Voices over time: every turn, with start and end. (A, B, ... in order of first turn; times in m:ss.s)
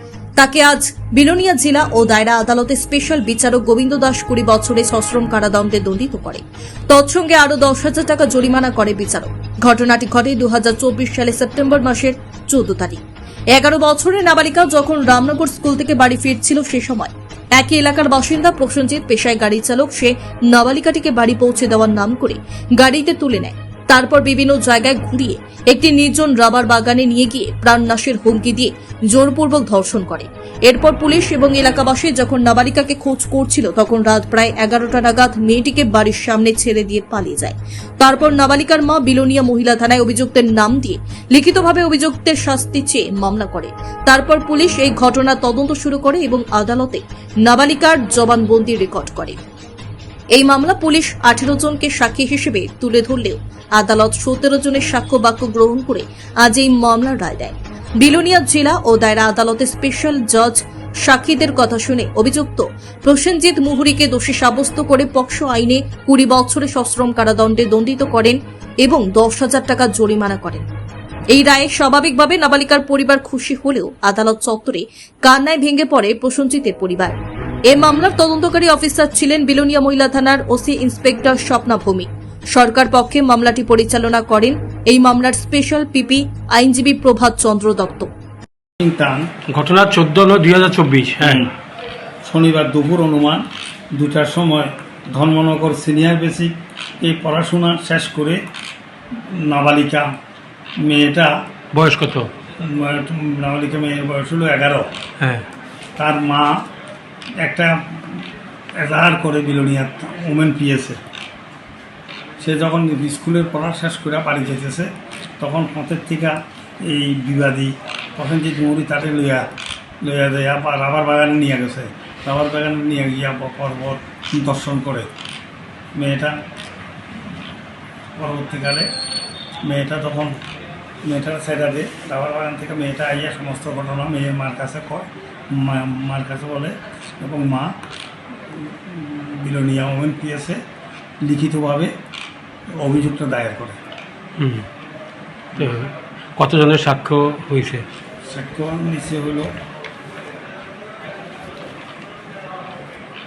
0:00.4-0:13.0 A
0:13.5-0:49.4 A
0:50.3-1:10.6 A
1:11.3-1:17.2 A
1:17.7-1:28.1 A
1:28.8-1:29.3 B
1:29.5-1:31.4 C
1:31.2-1:31.5 B
1:32.2-1:33.4 B
1:33.9-1:38.4 B
1:39.2-1:40.1 B
1:40.8-1:41.3 B
1:41.7-1:42.3 C
1:42.6-1:44.9 B
1:45.2-1:45.4 C
1:46.0-1:46.6 B
1:47.4-1:48.2 B
1:48.8-1:51.0 B
1:52.4-1:59.5 B
2:00.0-2:05.1 B
2:06.0-2:06.4 B
2:08.2-2:08.9 B
2:09.6-2:10.4 B
2:11.0-2:17.7 B
2:18.5-2:20.6 B
2:21.2-2:21.9 B
2:22.8-2:23.8 B
2:24.4-2:24.6 C
2:25.6-2:27.8 C
2:28.3-2:29.5 B